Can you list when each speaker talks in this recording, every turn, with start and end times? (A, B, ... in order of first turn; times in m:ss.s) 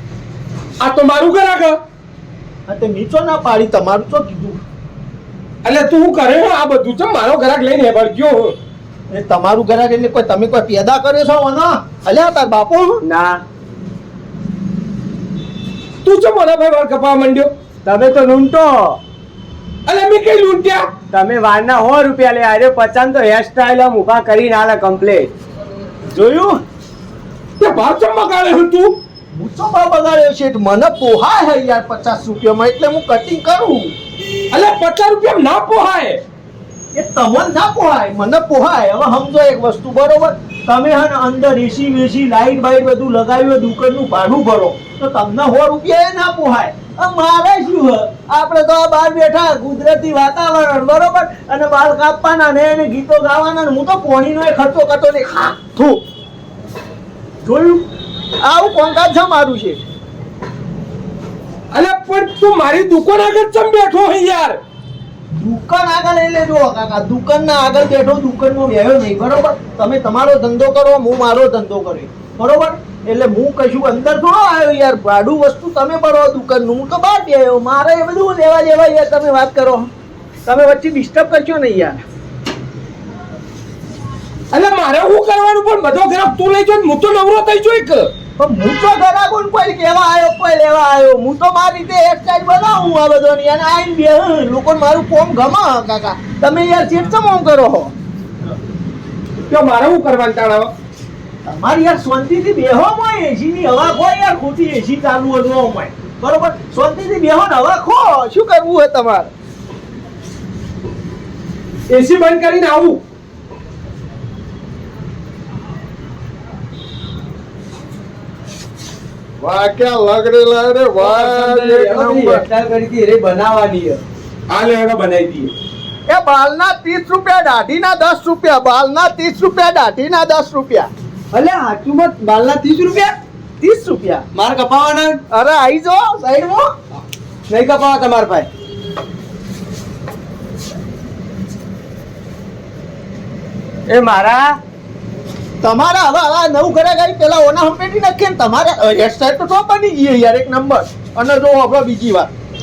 0:00.8-0:01.8 A
0:02.7-0:04.6 B
0:05.6-0:08.6 A
0:09.1-0:13.0 B
0:13.0-0:13.4 C
0:16.0-0:17.5 A
0:17.8-0:19.0 C
0:19.9-0:20.9 A
0:21.1-0:25.3 C
0:26.1-0:26.6 C
0:27.6-0:29.0 A
0:29.3-0:33.9 B
0:34.5-0:36.2 A
0:36.9-0:56.0 B
0:57.4-0:57.9 B
0:58.4-0:59.8 B
1:01.7-1:04.6 A
1:05.3-1:19.9 B
1:20.5-1:22.0 B
1:24.5-1:28.1 A
1:28.4-1:37.9 B
1:39.5-1:40.7 A
1:41.4-1:49.3 B
1:51.9-1:53.0 A
1:59.4-2:02.4 B
2:01.0-2:04.0 C
2:04.5-2:05.5 A
2:06.1-2:10.9 B
2:11.3-2:13.1 C
2:13.6-2:14.3 B
2:14.3-2:15.2 C
2:15.3-2:16.7 B
2:17.5-2:18.5 C
2:23.9-2:24.6 C
2:25.6-2:32.3 B